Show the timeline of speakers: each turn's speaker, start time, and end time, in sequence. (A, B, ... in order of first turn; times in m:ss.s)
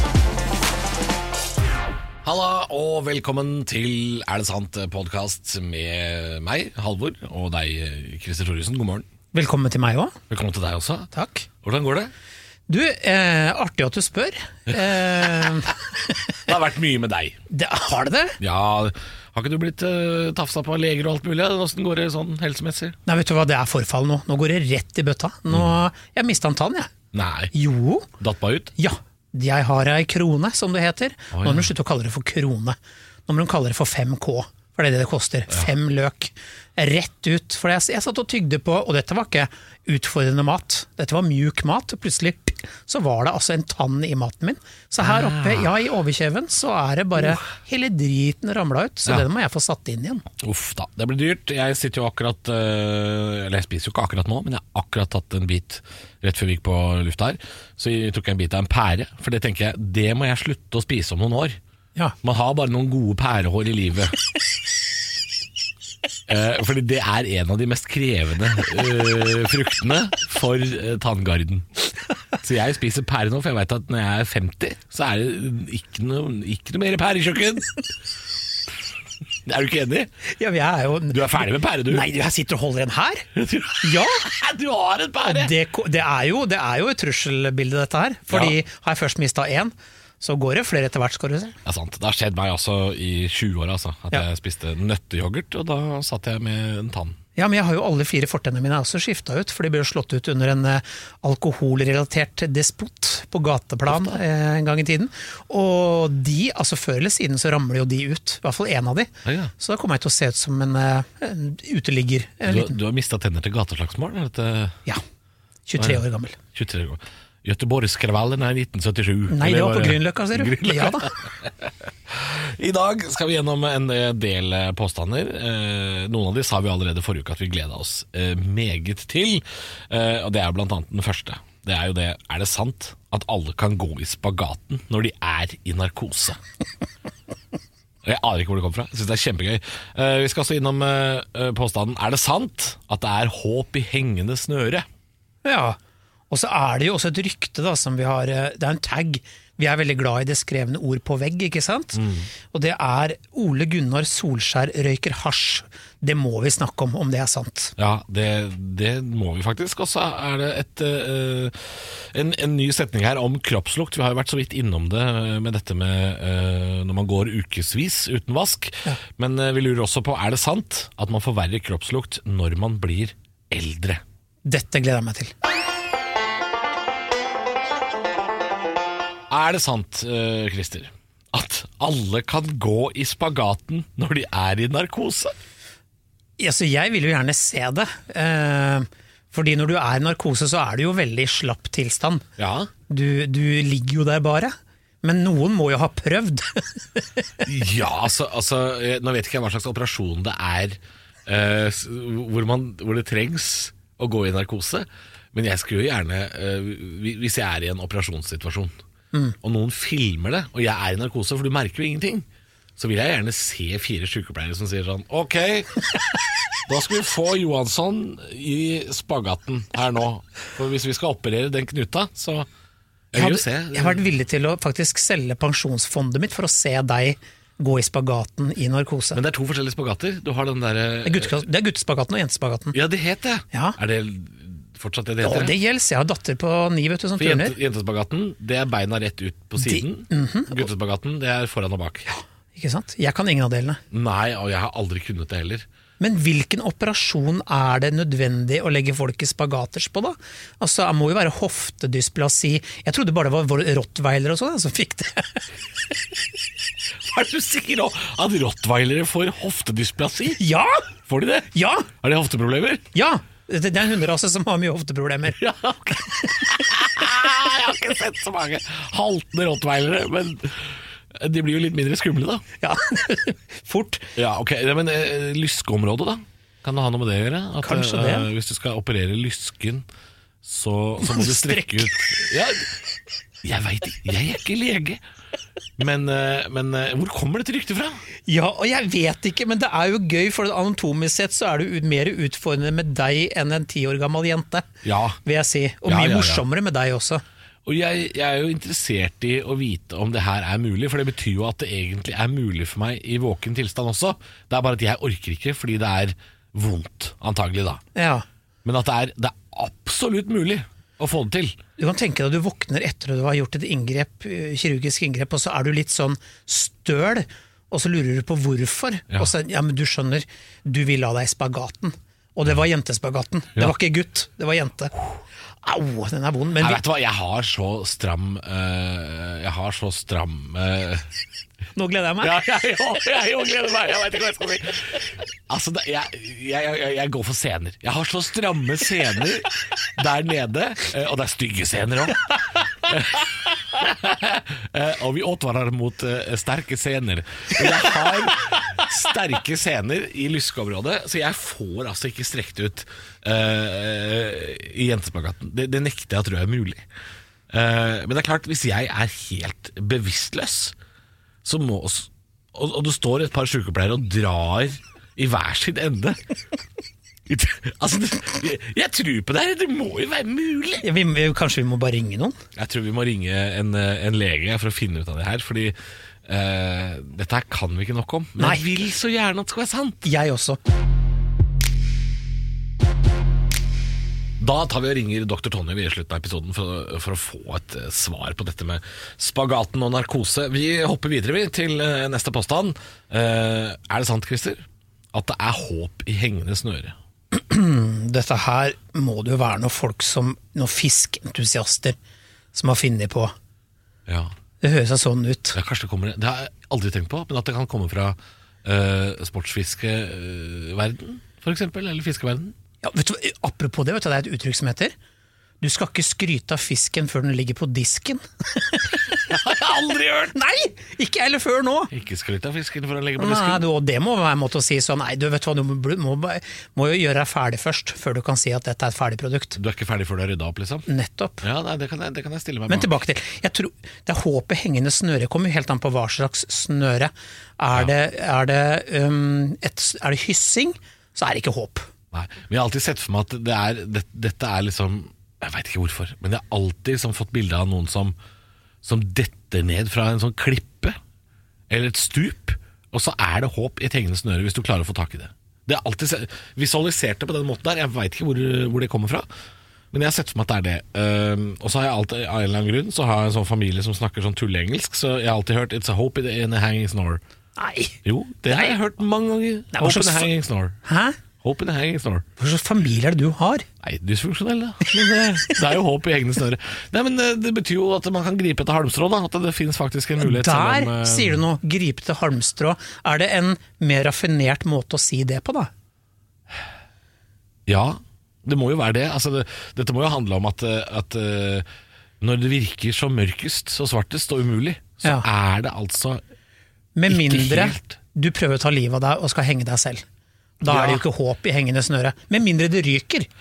0:02.2-0:09.1 A
0:09.3-0:10.2 B
0:10.3-0:11.1 A
0:11.1-0:11.5 B
0:11.6-0:12.1 A
0:12.7-0:16.4 B
0:16.4-0:17.4 A
0:17.5-0:18.4 B
0:18.4-0:23.0 A
0:23.1-0:26.9 B
0:27.1-0:27.5 A
0:27.5-0:28.1 B
0:28.2-0:28.7 A
0:28.8-0:32.8 B
0:31.3-0:31.7 A
0:33.3-0:50.2 B
0:45.0-0:45.8 A
0:47.2-0:47.4 A
0:50.4-1:01.6 A
1:02.2-1:04.2 A
1:06.3-1:11.8 A
1:12.3-1:17.8 A
1:19.4-1:20.1 A
1:20.3-1:23.3 B
1:21.1-1:22.1 A
1:23.3-1:25.5 A
1:23.8-1:24.2 B
1:25.2-1:31.6 B
1:28.3-1:28.6 A
1:31.6-1:37.2 A
1:37.4-1:52.8 B
1:43.9-1:44.2 A
1:49.2-1:49.5 A
1:52.4-1:54.8 A
1:55.7-1:56.4 B
1:56.5-2:16.4 A
1:59.3-2:01.1 B
2:18.0-2:24.8 A
2:25.4-2:25.8 B
2:26.3-2:37.7 B
2:31.9-2:32.3 A
2:37.8-2:54.0 A
2:54.4-2:55.3 B
2:59.3-3:05.3 A
3:06.4-3:12.2 B
3:12.4-3:12.7 A
3:12.9-3:17.4 B
3:17.4-3:28.7 A
3:29.4-3:32.2 A
3:32.8-3:35.7 A
3:36.6-3:42.5 A
3:43.1-3:44.0 A
3:43.1-3:49.2 B
3:49.1-3:51.3 A
3:51.0-3:52.8 B
3:52.7-3:55.6 A
3:53.5-3:53.8 B
3:55.2-3:57.5 B
3:57.2-4:02.1 A
3:59.6-4:00.7 B
4:02.1-4:03.8 B
4:03.9-4:05.6 A
4:06.0-4:15.4 B
4:17.0-4:20.4 A
4:20.4-4:20.9 B
4:21.1-4:22.8 A
4:21.5-4:21.9 B
4:22.9-4:25.4 B
4:25.4-4:32.4 A
4:26.0-4:26.4 B
4:32.6-4:34.1 B
4:34.2-4:39.8 A
4:37.6-4:38.3 B
4:40.4-4:42.7 A
4:41.0-4:42.2 B
4:43.4-4:45.0 A
4:45.8-4:48.0 A
4:48.3-4:54.7 B
4:54.8-4:55.2 A
4:55.2-4:57.2 B
4:55.8-4:56.4 A
4:57.6-5:07.8 A
5:07.9-5:08.2 B
5:08.6-5:11.6 A
5:11.8-5:24.9 B
5:25.6-5:26.8 B
5:26.6-5:31.1 A
5:31.8-5:32.3 B
5:32.2-5:56.8 A
5:57.5-6:00.7 A
6:01.4-6:06.2 A
6:07.3-6:10.9 A
6:10.8-6:12.4 B
6:12.5-6:20.1 A
6:18.4-6:18.6 B
6:20.0-6:20.6 B
6:24.4-6:36.9 A
6:37.3-6:42.0 B
6:42.5-6:43.3 B
6:44.1-6:44.3 A
6:44.6-6:45.6 B
6:45.5-6:52.5 A
6:52.8-6:54.9 B
6:55.6-6:59.2 B
6:59.2-7:00.3 A
7:00.3-7:01.9 B
7:01.9-7:03.7 A
7:03.2-7:09.6 B
7:09.6-7:10.9 A
7:10.9-7:11.4 B
7:11.4-7:12.9 A
7:12.7-7:21.9 B
7:22.1-7:28.1 A
7:28.8-7:31.0 A
7:31.7-7:39.2 A
7:39.9-7:47.2 A
7:47.6-7:48.7 B
7:48.0-7:50.8 A
7:49.7-7:50.3 B
7:50.8-7:51.2 B
7:51.4-7:52.2 A
7:52.4-7:53.7 B
7:53.8-8:01.4 A
7:54.8-7:55.6 B
8:00.2-8:05.7 B
8:07.7-8:11.6 A
8:12.2-8:16.2 A
8:16.9-8:20.0 B
8:17.1-8:18.0 A
8:20.6-8:23.3 B
8:20.6-8:21.0 A